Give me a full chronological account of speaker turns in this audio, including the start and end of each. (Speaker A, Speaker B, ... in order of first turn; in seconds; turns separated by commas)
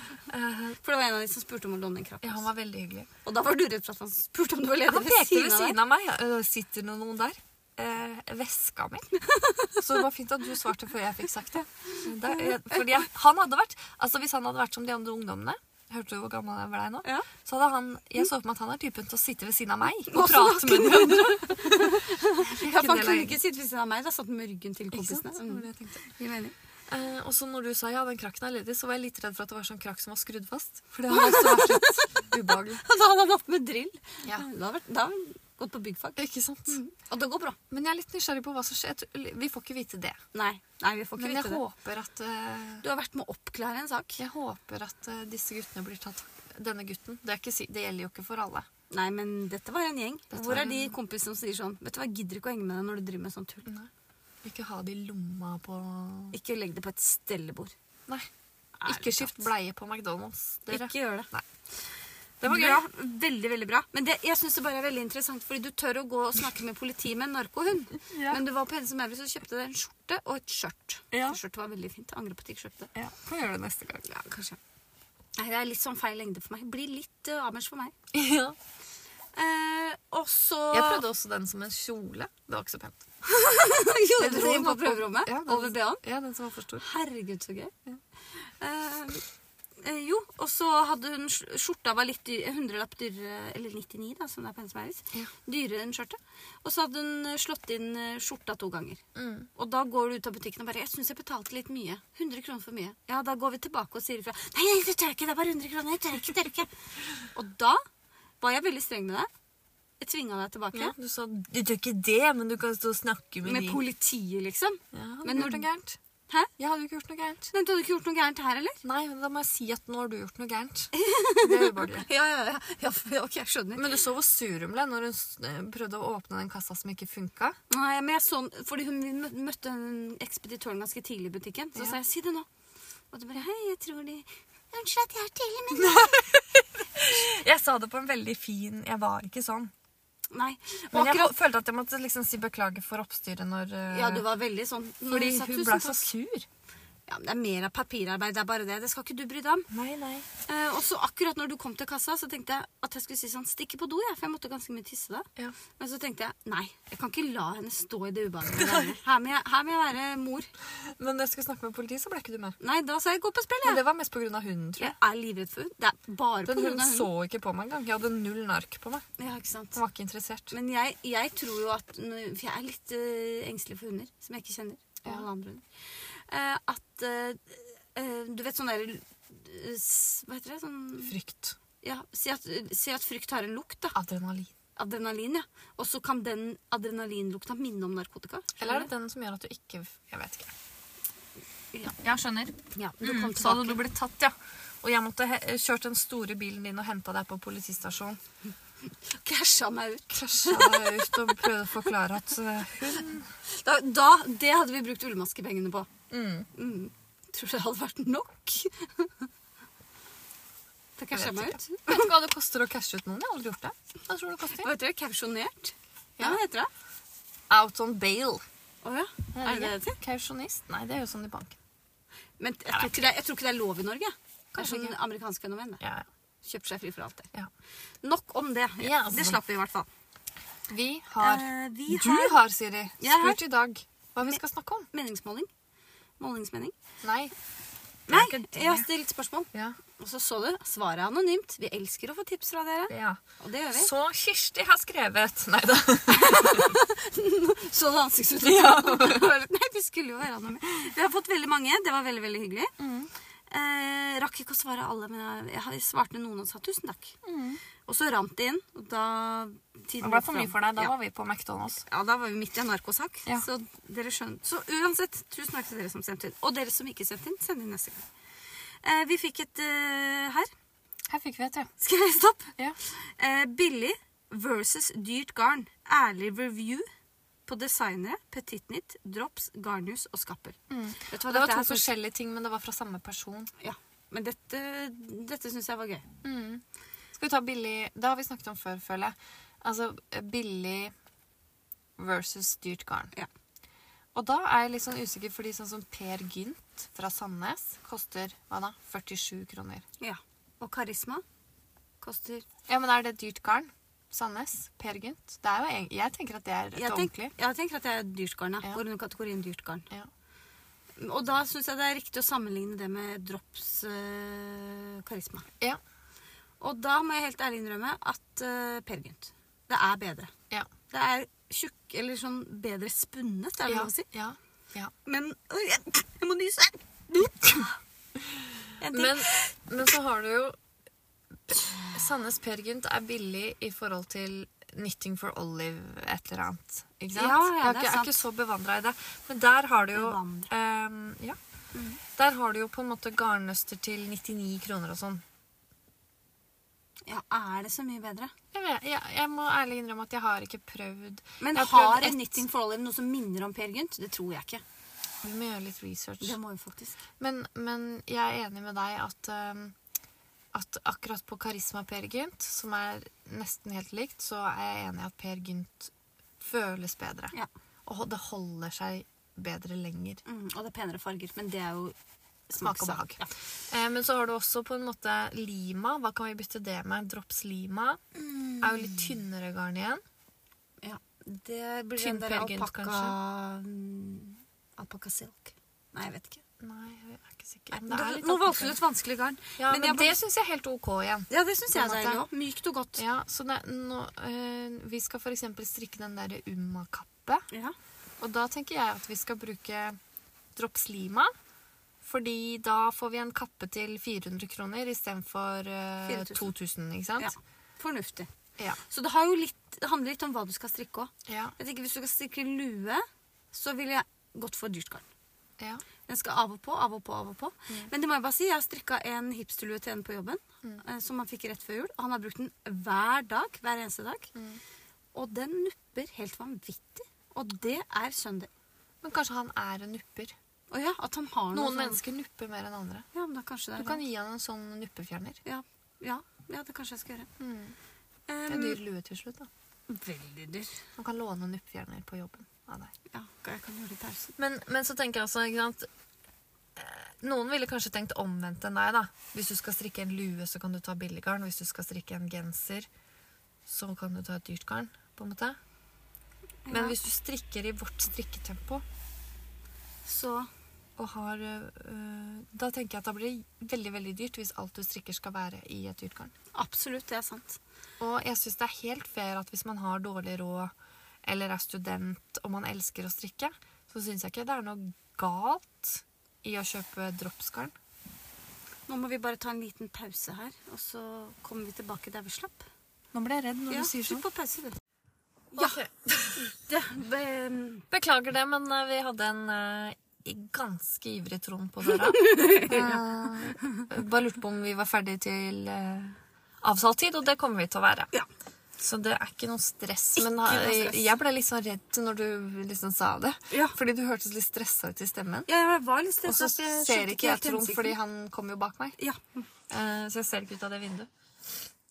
Speaker A: 0.3-0.8, Speaker B: 0.8-2.5, Speaker A: 2.2-3.1, Speaker B: 3.2-5.8, Speaker A: 4.9-9.1, Speaker B: 9.2-10.0, Speaker A: 9.8-23.4, Speaker B: 11.9-12.8, Speaker B: 20.1-26.5, Speaker A: 24.9-26.0, Speaker A: 26.9-32.8, Speaker B: 31.1-32.3, Speaker B: 32.8-37.6, Speaker A: 36.2-36.8, Speaker A: 37.7-40.2, Speaker B: 40.3-41.6, Speaker A: 41.2-42.8, Speaker B: 42.8-44.2, Speaker A: 44.2-48.7, Speaker B: 48.9-53.7, Speaker A: 50.3-50.9, Speaker A: 54.4-56.4, Speaker B: 56.3-57.7, Speaker B: 58.8-59.5, Speaker A: 58.9-61.5, Speaker B: 60.7-61.3, Speaker A: 62.4-62.8, Speaker B: 62.4-72.9, Speaker A: 68.1-68.4, Speaker A: 71.1-71.4, Speaker A: 73.0-74.1, Speaker B: 74.0-74.6, Speaker B: 75.4-78.0, Speaker A: 78.1-78.6, Speaker B: 79.3-81.0, Speaker A: 80.7-83.0, Speaker B: 83.2-86.0, Speaker A: 84.2-86.8, Speaker B: 86.8-87.7, Speaker B: 88.4-89.2, Speaker B: 89.8-99.0, Speaker A: 99.2-99.5, Speaker B: 99.6-106.7, Speaker B: 107.3-107.8, Speaker B: 108.4-109.3, Speaker B: 110.0-110.9, Speaker A: 110.7-113.8, Speaker B: 113.4-115.7, Speaker A: 114.9-116.0, Speaker A: 116.6-117.5, Speaker B: 117.5-118.8, Speaker A: 118.8-122.1, Speaker B: 120.9-123.9, Speaker A: 123.8-127.6, Speaker B: 127.7-132.5, Speaker B: 133.1-136.1, Speaker A: 135.7-139.7, Speaker B: 140.3-141.3, Speaker A: 140.9-144.2, Speaker B: 143.9-146.1, Speaker A: 145.1-146.5, Speaker B: 147.1-149.7, Speaker A: 149.7-150.3, Speaker B: 150.5-155.3, Speaker B: 155.8-160.5, Speaker A: 158.6-158.9, Speaker A: 160.8-162.6, Speaker B: 162.6-163.8, Speaker A: 163.6-165.0, Speaker B: 164.8-167.1, Speaker A: 166.5-169.1, Speaker B: 169.2-169.8, Speaker A: 169.7-170.5, Speaker B: 170.5-181.1, Speaker A: 181.0-181.6, Speaker B: 181.8-184.0, Speaker A: 183.9-184.5, Speaker B: 184.8-188.9, Speaker A: 188.6-190.5, Speaker A: 192.0-198.2, Speaker B: 192.7-193.8, Speaker B: 199.0-201.5, Speaker A: 200.1-203.3, Speaker B: 203.4-205.9, Speaker A: 206.1-206.5, Speaker B: 206.6-209.3, Speaker B: 211.0-212.1, Speaker A: 211.1-214.7, Speaker B: 214.5-216.7, Speaker A: 217.5-218.4, Speaker B: 218.8-220.0, Speaker A: 219.3-221.6, Speaker B: 222.4-225.8, Speaker A: 222.7-223.0, Speaker A: 224.6-224.9, Speaker B: 226.4-227.3, Speaker B: 228.0-229.9, Speaker A: 228.8-229.4, Speaker A: 230.7-234.9, Speaker B: 231.2-232.4, Speaker B: 233.0-233.4, Speaker B: 234.9-235.5, Speaker B: 236.2-236.8, Speaker A: 237.0-237.3, Speaker B: 238.1-243.9, Speaker A: 238.1-238.9, Speaker A: 242.9-243.2, Speaker A: 243.7-246.8, Speaker B: 246.1-252.7, Speaker A: 248.4-249.3, Speaker A: 252.8-253.1, Speaker B: 253.5-257.2, Speaker A: 257.2-257.6, Speaker B: 257.9-260.9, Speaker A: 260.0-261.8, Speaker B: 261.8-268.0, Speaker B: 268.8-270.5, Speaker A: 271.1-271.7, Speaker B: 271.8-276.9, Speaker B: 277.5-281.9, Speaker A: 280.7-283.5, Speaker B: 283.6-286.1, Speaker A: 286.2-286.6, Speaker A: 287.1-290.9, Speaker A: 292.0-293.1, Speaker A: 294.1-299.9, Speaker B: 300.0-301.2, Speaker B: 302.0-302.4, Speaker A: 302.7-307.3, Speaker B: 306.8-309.9, Speaker B: 311.0-315.5, Speaker B: 316.6-320.3, Speaker B: 320.9-324.1, Speaker A: 323.7-324.9, Speaker B: 325.1-327.8, Speaker B: 328.8-329.6, Speaker A: 328.9-330.6, Speaker A: 331.5-341.4, Speaker B: 331.6-332.0, Speaker B: 337.1-338.2, Speaker B: 339.9-340.5, Speaker A: 342.0-345.2, Speaker B: 347.1-348.3, Speaker A: 348.5-352.4, Speaker B: 351.4-354.6, Speaker A: 355.2-356.4, Speaker B: 356.2-357.0, Speaker A: 357.2-359.8, Speaker A: 360.5-367.3, Speaker A: 367.9-370.2, Speaker B: 370.3-372.0, Speaker B: 372.5-373.3, Speaker A: 372.6-378.0, Speaker B: 378.1-379.2, Speaker A: 378.6-380.0, Speaker B: 380.8-386.4, Speaker A: 382.0-383.1, Speaker A: 386.6-388.8, Speaker B: 387.7-390.2, Speaker A: 389.6-392.2, Speaker B: 391.3-393.0, Speaker A: 393.0-397.5, Speaker A: 398.2-400.0, Speaker A: 400.6-401.3, Speaker A: 402.0-407.3, Speaker B: 406.1-406.5, Speaker B: 407.2-408.3, Speaker B: 408.9-415.1, Speaker A: 411.3-411.6, Speaker B: 416.1-424.3, Speaker A: 424.4-424.6, Speaker B: 425.1-428.5, Speaker A: 429.0-430.3, Speaker B: 430.7-432.0, Speaker A: 431.5-433.1, Speaker B: 433.1-434.1, Speaker A: 433.8-435.4, Speaker B: 435.4-437.3, Speaker A: 437.4-437.8, Speaker B: 438.3-438.8, Speaker A: 438.5-439.5, Speaker B: 439.9-440.8, Speaker A: 441.0-442.9, Speaker B: 443.1-444.3, Speaker A: 444.4-445.9, Speaker A: 446.8-452.9, Speaker A: 453.7-455.6, Speaker B: 456.7-457.1, Speaker A: 456.7-458.8, Speaker B: 460.1-460.5, Speaker A: 461.0-466.3, Speaker B: 466.5-467.6, Speaker A: 468.0-470.7, Speaker A: 471.3-477.7, Speaker B: 478.9-482.6, Speaker A: 483.1-484.2, Speaker B: 483.7-484.8, Speaker B: 485.5-485.8, Speaker A: 485.6-486.5, Speaker B: 486.4-487.9, Speaker A: 487.9-498.1, Speaker B: 491.9-493.1, Speaker B: 493.6-493.9, Speaker A: 498.8-505.5, Speaker B: 500.2-501.1, Speaker B: 503.5-503.8, Speaker B: 505.5-508.0, Speaker A: 506.3-509.0, Speaker B: 509.0-509.5, Speaker A: 509.7-511.1